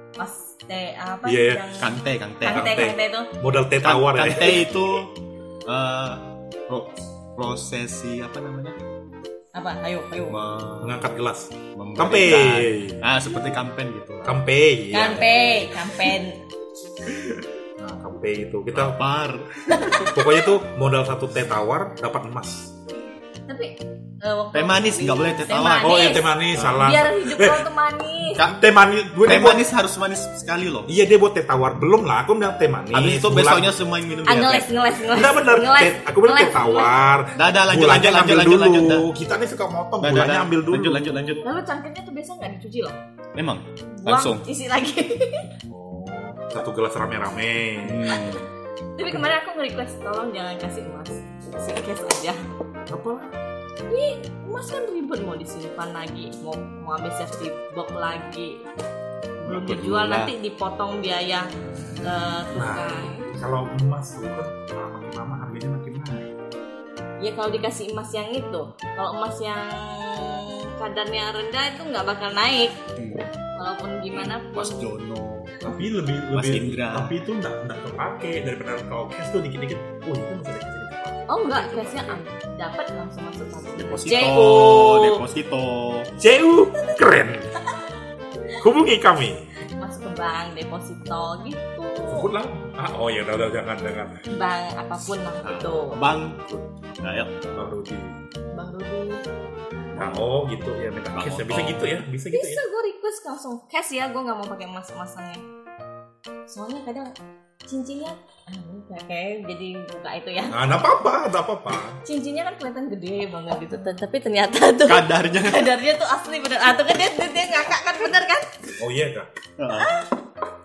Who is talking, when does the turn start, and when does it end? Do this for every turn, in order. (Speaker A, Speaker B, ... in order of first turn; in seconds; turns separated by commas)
Speaker A: 0.2-3.3, Speaker B: 1.2-1.7, Speaker C: 1.8-2.9, Speaker B: 2.5-5.0, Speaker C: 3.8-5.1, Speaker C: 5.7-8.8, Speaker A: 9.6-10.4, Speaker C: 10.3-11.1, Speaker B: 10.8-13.0, Speaker C: 11.8-14.4, Speaker B: 14.2-15.5, Speaker A: 14.9-16.4, Speaker B: 17.8-19.0, Speaker C: 18.7-20.1, Speaker A: 19.8-20.1, Speaker B: 20.1-22.7, Speaker A: 23.5-26.2, Speaker C: 24.5-26.0, Speaker B: 25.8-27.6, Speaker C: 26.6-26.9, Speaker A: 26.8-28.4, Speaker C: 28.4-28.6, Speaker B: 28.4-29.6, Speaker C: 29.2-30.9, Speaker B: 30.9-33.8, Speaker C: 32.9-34.7, Speaker A: 34.3-36.9, Speaker B: 35.1-41.2, Speaker C: 37.4-39.1, Speaker C: 40.0-41.5, Speaker A: 41.4-43.0, Speaker C: 43.4-44.5, Speaker A: 44.0-45.5, Speaker B: 45.7-48.2, Speaker C: 47.8-48.5, Speaker A: 49.0-52.4, Speaker B: 52.9-53.3, Speaker A: 53.9-58.7, Speaker C: 59.4-60.3, Speaker A: 59.4-61.5, Speaker A: 62.0-63.3, Speaker B: 62.5-66.3, Speaker A: 67.2-72.8, Speaker C: 73.0-73.3, Speaker A: 73.6-74.8, Speaker C: 74.5-75.6, Speaker B: 75.6-82.2, Speaker C: 76.3-77.2, Speaker A: 81.3-85.2, Speaker C: 83.8-86.1, Speaker B: 86.2-87.5, Speaker B: 88.5-89.4, Speaker A: 89.8-92.3, Speaker B: 92.1-94.2, Speaker A: 94.3-96.0, Speaker C: 95.4-97.5, Speaker B: 97.5-98.2, Speaker A: 98.5-99.2, Speaker C: 99.9-100.3, Speaker B: 100.0-102.6, Speaker C: 101.1-102.0, Speaker A: 102.3-105.4, Speaker A: 106.5-107.1, Speaker A: 107.7-110.6, Speaker B: 110.5-112.0, Speaker A: 112.0-118.5, Speaker C: 114.8-115.7, Speaker B: 118.8-119.3, Speaker C: 119.6-120.0, Speaker A: 119.8-120.1